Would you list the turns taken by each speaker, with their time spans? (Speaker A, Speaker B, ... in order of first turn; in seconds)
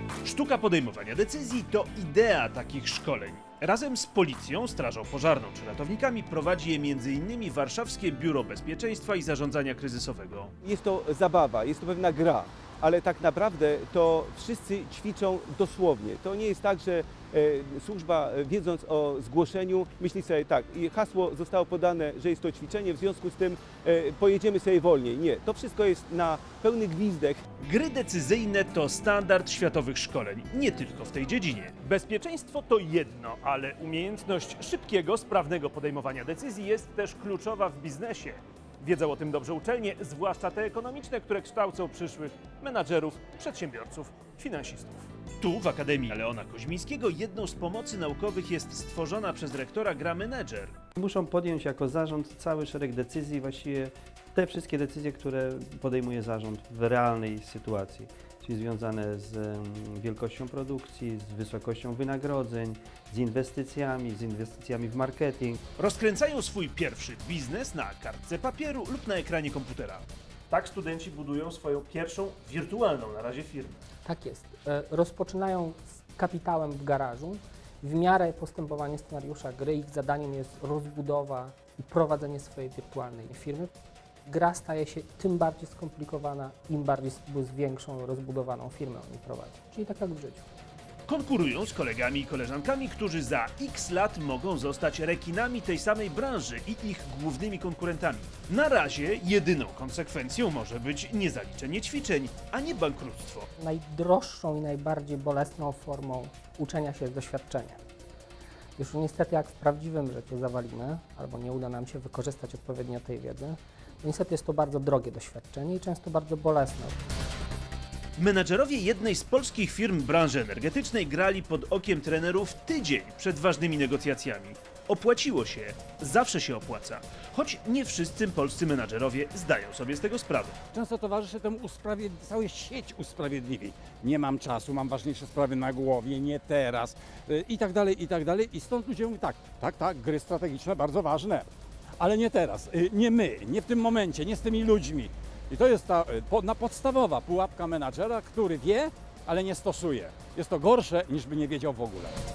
Speaker A: 0.2-10.5, 27.6-50.7, 65.8-73.8, 91.1-103.5, 118.2-130.6
Speaker B: 10.6-27.4
Speaker C: 51.0-65.6
Speaker D: 74.0-83.7, 84.2-90.5, 103.6-107.8, 108.8-117.0
Speaker E: 130.7-141.4, 142.0-152.1